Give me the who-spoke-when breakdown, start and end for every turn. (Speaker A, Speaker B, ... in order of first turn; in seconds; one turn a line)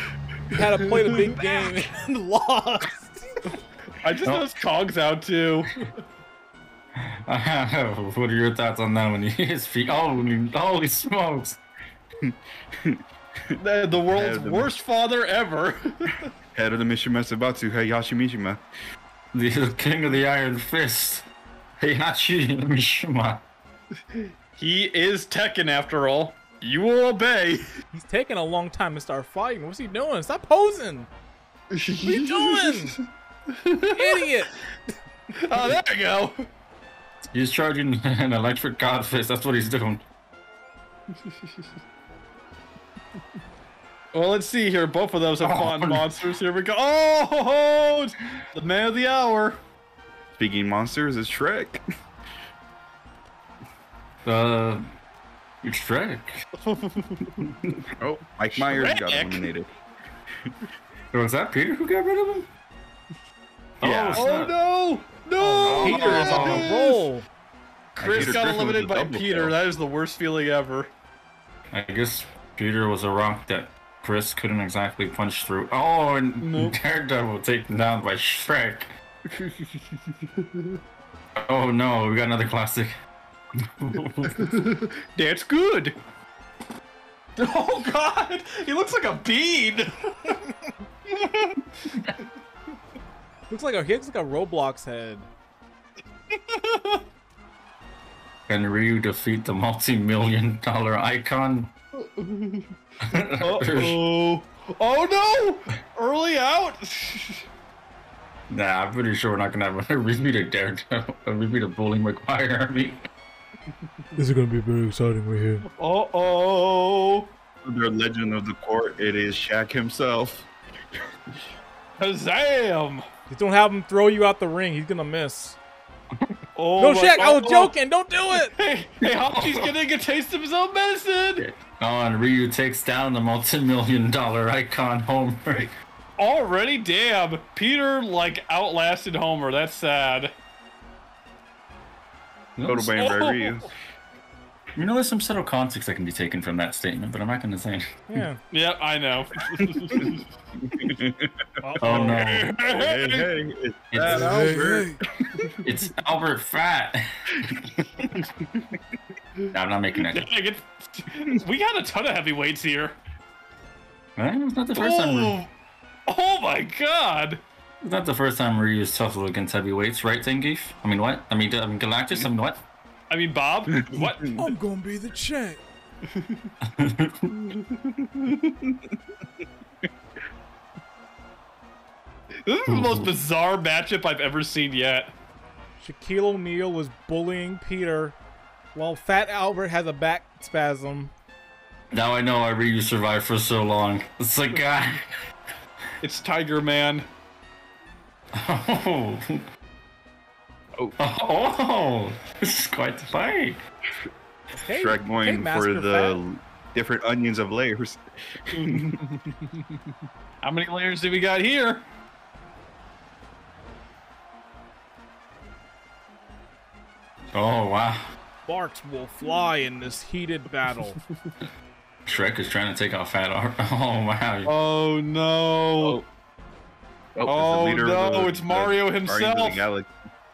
Speaker A: 0.5-3.5
Speaker B: 0.6-1.4
Speaker B: 4.0-5.9
Speaker C: 4.2-4.5
Speaker C: 7.0-11.6
Speaker D: 12.2-14.8
Speaker B: 13.6-16.3
Speaker D: 16.5-18.6
Speaker C: 19.3-21.3
Speaker C: 21.8-23.4
Speaker B: 24.1-27.7
Speaker A: 27.9-31.1
Speaker B: 31.7-32.9
Speaker A: 32.0-33.0
Speaker B: 33.5-34.3
Speaker A: 33.9-34.5
Speaker B: 35.4-36.5
Speaker C: 37.3-40.0
Speaker B: 44.1-49.6
Speaker C: 45.4-46.1
Speaker D: 50.4-51.8
Speaker C: 54.2-54.8
Speaker C: 55.6-56.4
Speaker B: 56.6-57.5
Speaker C: 57.4-57.7
Speaker D: 58.0-59.7
Speaker B: 58.5-59.5
Speaker C: 61.1-62.5
Speaker C: 63.8-64.5
Speaker D: 63.8-64.2
Speaker B: 63.8-67.1
Speaker A: 65.4-67.3
Speaker C: 65.6-66.8
Speaker B: 68.0-70.9
Speaker D: 68.0-69.5
Speaker C: 68.0-68.4
Speaker C: 71.7-78.9
Speaker B: 76.4-76.7
Speaker B: 79.3-80.8
Speaker C: 81.3-82.9
Speaker C: 83.6-84.5
Speaker B: 84.4-86.0
Speaker B: 87.4-90.3
Speaker B: 91.0-91.7
Speaker A: 93.5-95.3
Speaker B: 96.3-97.0
Speaker C: 98.5-101.7
Speaker B: 102.0-102.7
Speaker C: 103.0-104.0
Speaker B: 103.4-107.4
Speaker C: 108.5-113.0
Speaker A: 114.2-115.7
Speaker B: 115.7-117.3
Speaker D: 117.6-120.5
Speaker B: 122.0-123.0
Speaker A: 123.3-125.6
Speaker B: 126.5-127.7
Speaker A: 126.8-128.5
Speaker B: 128.3-131.4
Speaker C: 129.0-129.7
Speaker C: 131.4-135.7
Speaker B: 136.2-140.3
Speaker C: 142.6-142.9
Speaker D: 142.7-143.7
Speaker B: 143.0-143.7
Speaker C: 144.8-147.8
Speaker A: 148.1-148.4
Speaker B: 148.5-150.2
Speaker D: 150.8-151.3
Speaker A: 151.6-152.2
Speaker C: 151.8-152.5
Speaker B: 151.8-153.3
Speaker D: 152.6-155.5
Speaker C: 153.9-154.6
Speaker A: 154.0-155.0
Speaker C: 155.6-158.2
Speaker C: 159.5-160.3
Speaker B: 160.0-163.0
Speaker C: 164.2-165.4
Speaker B: 164.7-165.5
Speaker B: 166.1-167.4
Speaker C: 167.8-172.6
Speaker B: 173.1-174.5
Speaker D: 173.8-174.1
Speaker A: 174.3-175.6
Speaker B: 176.1-176.4
Speaker C: 176.6-177.5
Speaker B: 182.4-185.1
Speaker C: 182.7-183.1
Speaker A: 185.8-188.2
Speaker A: 188.7-191.1
Speaker C: 191.9-195.1
Speaker B: 196.0-197.1
Speaker C: 198.3-199.4
Speaker C: 201.0-203.6
Speaker A: 204.6-206.2
Speaker D: 204.7-209.0
Speaker B: 208.5-209.8
Speaker B: 210.4-211.8
Speaker C: 217.3-218.0
Speaker A: 218.4-221.0
Speaker C: 222.1-224.5
Speaker B: 224.4-226.0
Speaker D: 227.2-229.9
Speaker B: 227.2-229.7